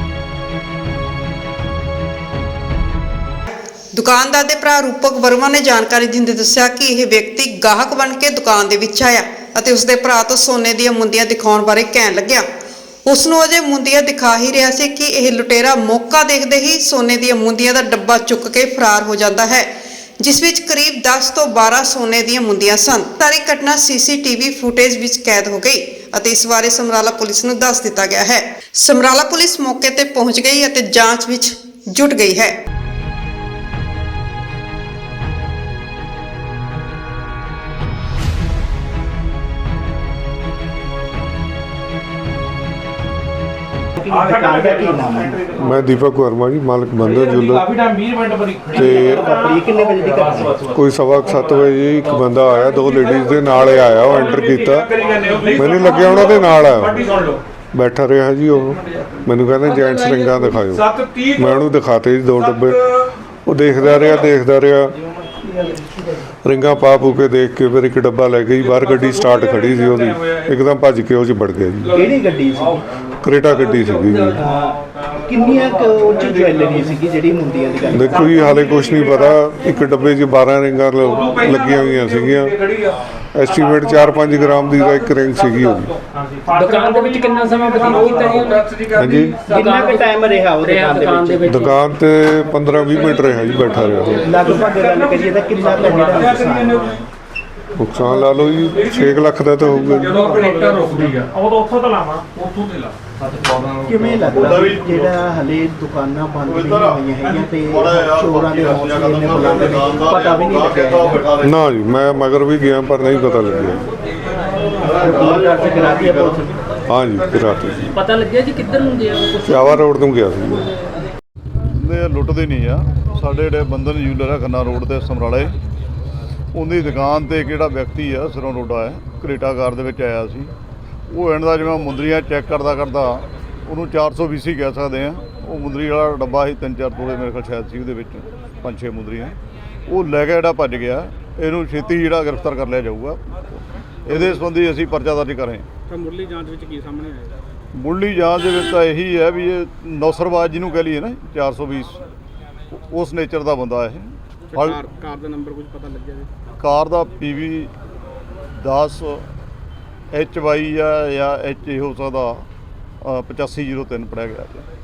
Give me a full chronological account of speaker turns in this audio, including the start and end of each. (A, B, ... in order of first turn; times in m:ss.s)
0:03.9-0:12.4 A
0:13.1-0:32.6 A
0:44.0-0:45.6 B
0:44.0-0:45.9 C
0:45.6-0:47.8 D
0:47.0-0:57.4 C
0:48.7-0:49.2 D
0:48.7-0:50.6 B
0:50.7-0:54.9 D
0:55.5-0:57.1 D
0:57.7-1:02.8 D
0:58.6-1:01.7 C
1:02.4-1:03.0 C
1:03.4-1:05.0 D
1:05.4-1:06.2 B
1:06.4-1:12.1 D
1:08.6-1:10.5 C
1:11.8-1:16.9 C
1:11.9-1:12.8 B
1:13.2-1:14.4 D
1:14.4-1:18.6 B
1:17.8-1:19.4 C
1:17.9-1:22.6 D
1:21.0-1:29.6 C
1:23.3-1:26.0 D
1:26.5-1:28.6 E
1:29.0-1:29.4 D
1:29.5-1:31.6 B
1:29.5-1:31.8 E
1:31.5-1:34.4 D
1:32.6-1:37.0 C
1:33.8-1:34.2 E
1:34.2-1:37.0 B
1:37.8-1:40.4 D
1:38.6-1:41.3 C
1:40.4-1:41.2 E
1:42.3-1:44.3 C
1:43.8-1:51.2 B
1:44.3-1:45.2 F
1:46.5-1:51.6 F
1:51.4-1:53.8 D
1:54.8-1:56.6 B
1:54.8-1:56.4 F
1:56.9-1:57.9 D
1:57.9-1:59.9 E
1:59.5-2:00.7 D
2:01.7-2:05.6 F
2:06.5-2:10.5 F
2:11.1-2:25.7 F
2:25.9-2:27.4 G
2:27.7-2:32.0 F
2:32.7-2:34.8 F
2:34.5-2:36.3 G
2:36.6-2:37.7 F
2:38.6-2:39.3 F
2:40.1-2:42.5 F
2:43.0-2:44.6 F